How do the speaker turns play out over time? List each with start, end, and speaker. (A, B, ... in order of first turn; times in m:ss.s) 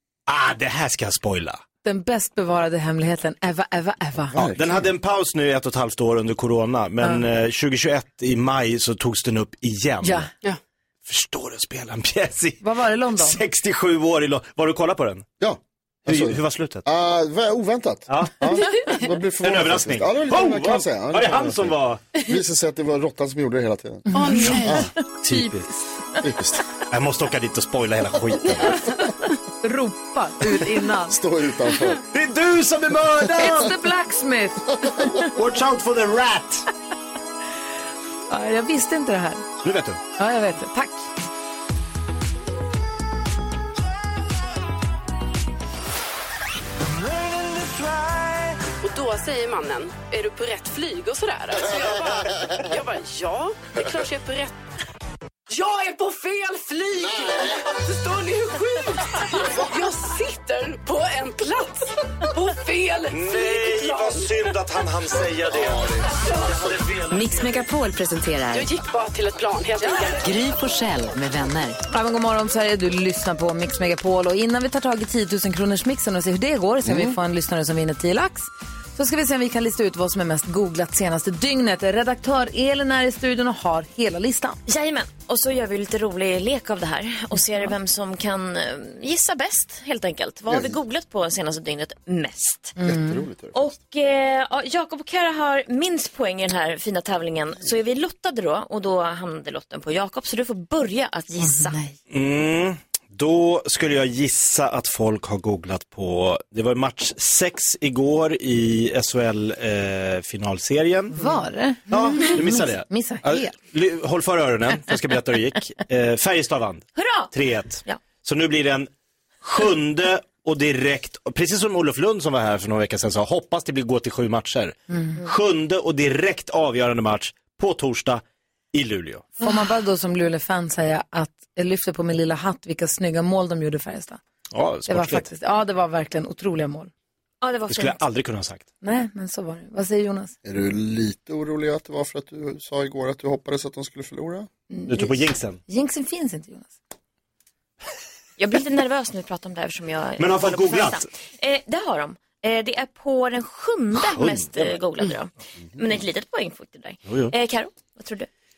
0:00.3-0:01.6 A
0:01.8-0:04.4 B
0:04.3-0:04.9 C
0:04.5-0:10.3 A
0:10.0-0:10.3 B
0:11.0-0:15.3 A
0:12.6-0:13.4 B
0:15.4-0:24.1 C
0:16.1-0:16.8 A
0:18.1-0:18.8 A
0:19.4-0:22.0 A
0:24.1-0:24.9 D
0:24.1-0:25.8 B
0:24.6-0:24.9 C
0:25.2-0:25.7 A
0:26.2-0:26.6 C
0:26.9-0:28.8 A
0:29.6-0:31.2 B
0:31.1-0:32.0 C
0:32.1-0:33.8 A
0:33.4-0:35.2 B
0:35.2-0:36.6 A
0:38.3-0:39.5 B
0:39.6-0:40.0 A
0:40.2-0:41.1 B
0:47.2-0:48.4 A
0:48.8-0:54.6 D
0:55.5-1:04.6 D
1:03.1-1:06.0 A
1:05.5-1:06.1 C
1:07.1-1:08.7 E
1:08.5-1:10.3 D
1:10.2-1:11.8 E
1:11.9-1:24.6 B
1:16.8-1:17.2 C
1:24.7-1:32.8 F
1:30.5-1:30.8 C
1:32.8-1:33.2 B
1:32.8-1:33.7 C
1:33.5-1:41.8 F
1:41.4-1:42.0 B
1:42.1-1:51.3 A
1:51.1-1:53.6 B
1:51.9-1:58.9 A
1:57.0-1:57.3 F
1:59.4-2:08.2 A
2:08.7-2:09.4 A
2:09.4-2:14.2 B
2:14.5-2:15.3 A
2:14.9-2:16.9 B
2:17.4-2:18.0 F
2:17.7-2:18.6 A
2:18.8-2:20.4 B
2:20.4-2:24.5 C
2:24.7-2:26.8 B
2:24.9-2:25.6 A
2:28.4-2:38.3 F
2:30.2-2:31.1 A
2:34.0-2:34.8 A
2:37.1-2:37.3 A